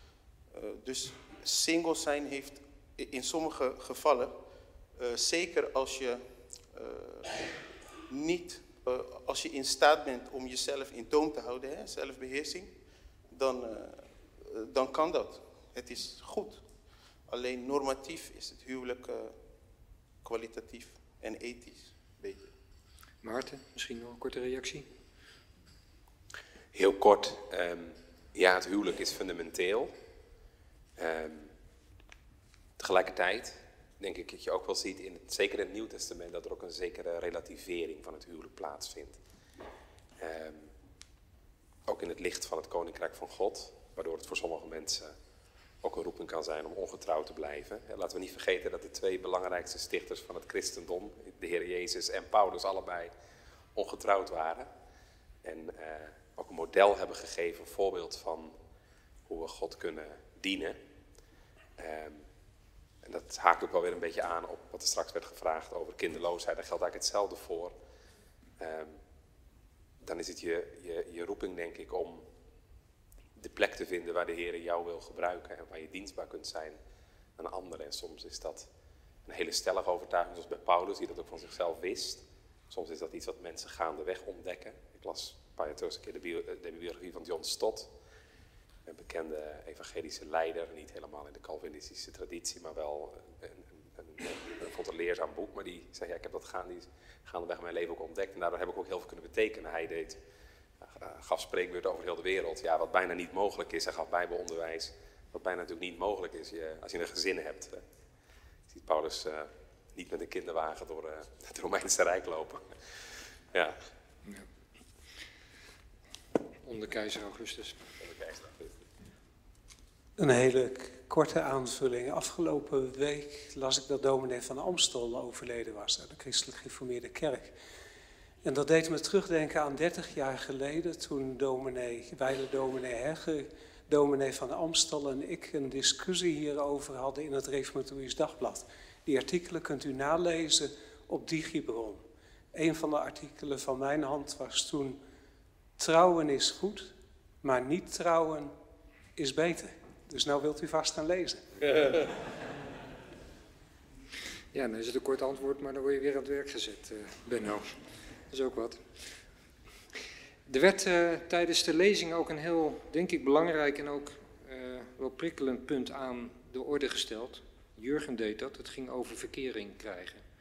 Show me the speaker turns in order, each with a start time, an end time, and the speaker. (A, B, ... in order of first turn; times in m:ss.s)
0:00.5-0:04.4 A
0:05.0-0:07.5 A
0:08.1-0:12.7 A
0:13.3-0:16.6 A
0:17.3-0:19.4 A
0:20.2-0:22.5 A
0:23.2-0:24.9 B
0:26.7-0:29.9 C
0:31.0-0:31.5 C
0:32.8-0:39.2 C
0:40.2-0:40.7 C
0:41.9-0:45.1 C
0:45.8-0:53.1 C
0:53.8-0:54.7 C
0:55.4-0:58.5 C
0:59.3-1:00.8 C
1:01.8-1:02.2 C
1:03.0-1:07.8 C
1:08.6-1:09.0 C
1:10.0-1:12.2 C
1:13.4-1:16.8 C
1:17.4-1:18.7 C
1:19.3-1:27.9 C
1:28.9-1:40.2 C
1:40.8-1:47.8 C
1:48.7-1:52.8 C
1:56.6-1:57.8 B
1:58.0-1:58.8 C
2:00.2-2:07.5 D
2:08.4-2:25.0 D
2:25.8-2:28.5 D
2:29.2-2:32.0 D
2:34.5-2:37.7 B
2:38.3-2:38.8 B
2:40.5-2:50.2 B